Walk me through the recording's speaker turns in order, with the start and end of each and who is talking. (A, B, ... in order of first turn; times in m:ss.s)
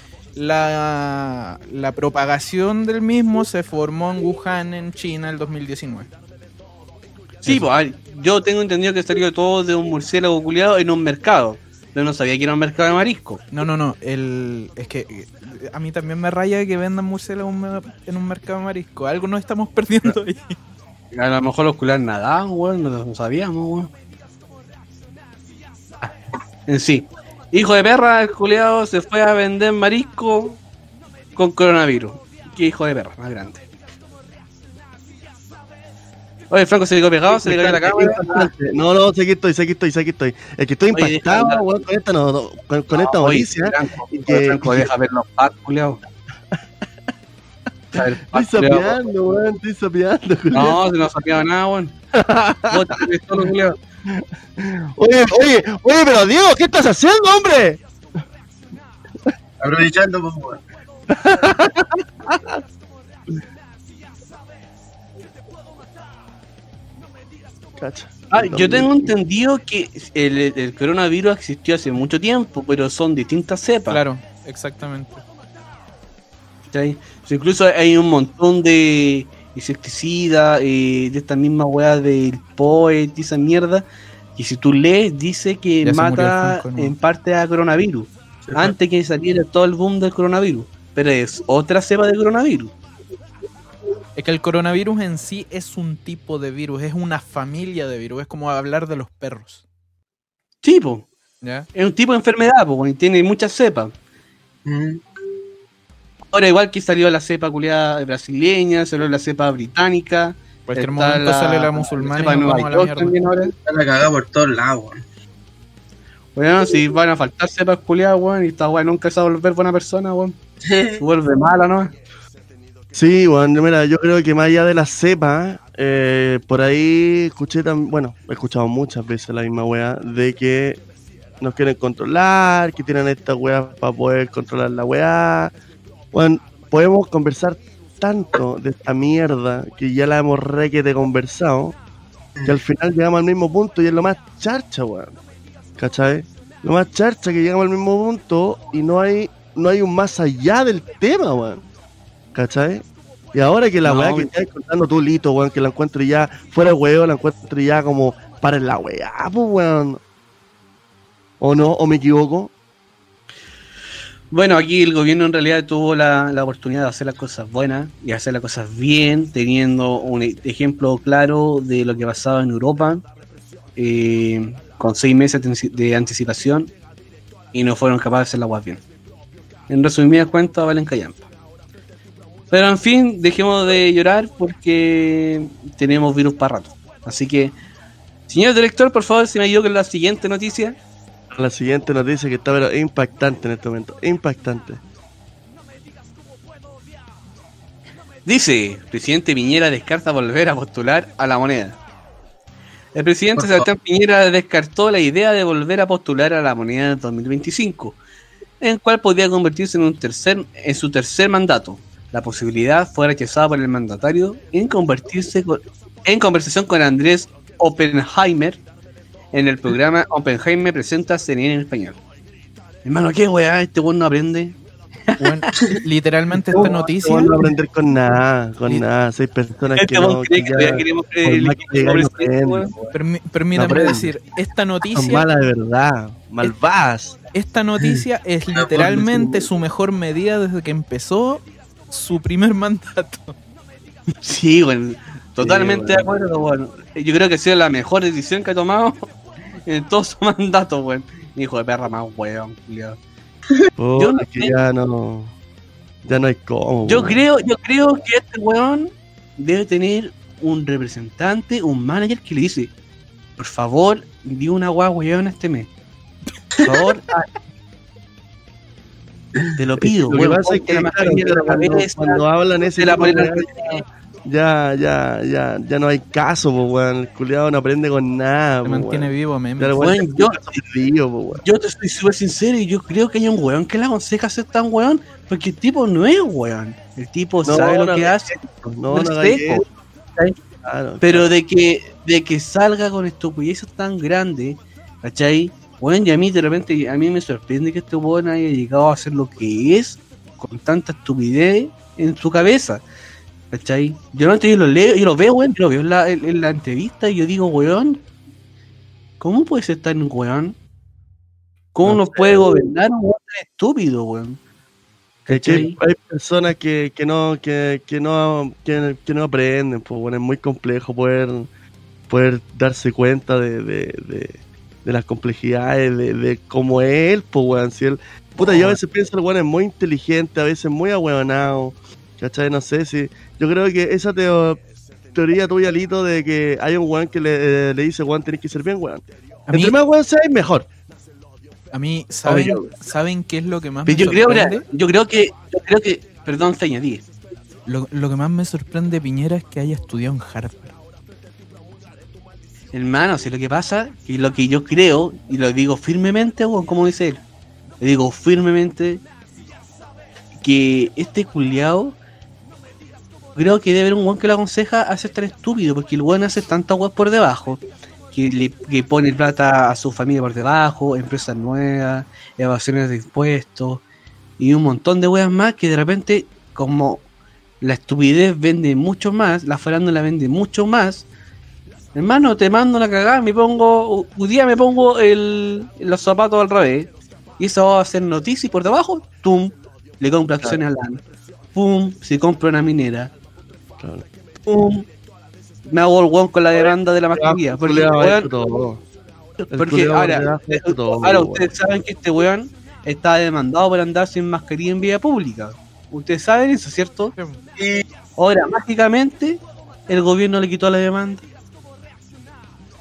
0:00.4-0:06.1 A
0:07.4-0:13.4 B
0:13.5-0:20.6 A
0:21.1-0:23.9 B
0:26.7-0:30.6 B
0:31.4-0:33.6 B
0:36.5-0:38.5 B
0:37.3-0:44.9 C
0:40.9-0:41.6 B
0:42.9-0:46.0 B
0:47.9-0:49.0 B
0:48.3-0:50.8 C
0:50.5-0:51.9 B
0:52.2-0:52.8 C
0:52.7-0:53.8 B
0:54.1-0:57.8 C
0:59.6-1:00.6 D
1:01.1-1:02.6 C
1:07.8-1:09.0 C
1:08.3-1:14.0 B
1:13.9-1:15.2 A
1:16.7-1:32.7 B
1:25.8-1:26.9 A
1:34.2-1:39.6 A
1:40.6-1:41.1 B
1:41.4-1:41.7 A
1:41.7-1:43.9 B
1:44.7-1:45.0 D
1:46.3-1:53.5 B
1:50.7-1:53.2 A
1:53.7-1:55.0 D
1:56.4-2:00.4 B
2:00.6-2:01.0 D
2:01.0-2:01.9 B
2:02.9-2:10.8 C
2:11.4-2:15.5 C
2:16.1-2:21.7 C
2:22.4-2:25.2 C
2:25.8-2:31.6 C
2:32.3-2:40.0 C
2:33.8-2:34.3 B
2:41.4-2:42.5 C
2:44.3-2:53.0 B
2:53.8-2:56.7 B
2:57.5-2:58.8 B
2:59.7-3:01.2 B
3:02.5-3:07.6 B
3:08.3-3:10.8 B
3:11.3-3:14.8 C
3:18.3-3:21.8 B
3:23.0-3:28.0 B
3:23.4-3:23.7 D
3:28.6-3:38.6 B
3:39.3-3:42.0 B
3:42.8-3:44.6 B
3:45.2-3:47.5 A
3:46.4-3:52.8 C
3:49.8-3:52.7 B
3:52.9-3:55.3 A
3:53.5-3:54.1 C
3:54.9-3:57.2 C
3:57.3-4:03.3 A
3:58.8-3:59.5 C
4:04.2-4:09.1 B
4:05.4-4:06.1 C
4:09.7-4:13.0 B
4:13.8-4:15.3 C
4:14.0-4:14.6 B
4:16.0-4:17.2 C
4:16.9-4:22.7 B
4:23.4-4:25.7 B
4:26.6-4:27.1 B
4:29.6-4:32.2 B
4:29.8-4:41.4 C
4:32.8-4:33.8 B
4:38.6-4:39.8 A
4:39.8-4:40.4 B
4:41.4-4:50.4 B
4:47.4-4:49.7 C
4:50.6-4:51.3 C
4:51.0-5:02.8 B
5:03.5-5:08.0 B
5:09.2-5:10.6 B
5:11.8-5:14.4 B
5:11.8-5:12.6 C
5:15.3-5:15.8 B
5:15.3-5:21.5 C
5:22.1-5:34.6 C
5:28.4-5:28.8 B
5:35.1-5:40.7 C
5:39.5-5:39.8 A
5:41.7-5:44.6 A
5:42.3-5:42.6 B
5:42.3-5:42.7 C
5:43.9-5:47.0 B
5:47.7-5:50.7 A
5:52.7-5:57.2 B
5:57.8-5:59.0 B
6:00.4-6:02.0 B
6:03.4-6:13.8 B
6:14.4-6:17.0 B
6:17.6-6:21.1 B
6:22.0-6:31.0 B
6:31.5-6:33.1 B
6:34.5-6:34.9 B
6:35.7-6:38.3 B
6:36.6-6:38.8 C
6:39.5-6:41.5 C
6:39.6-6:47.2 B
6:48.2-6:51.3 B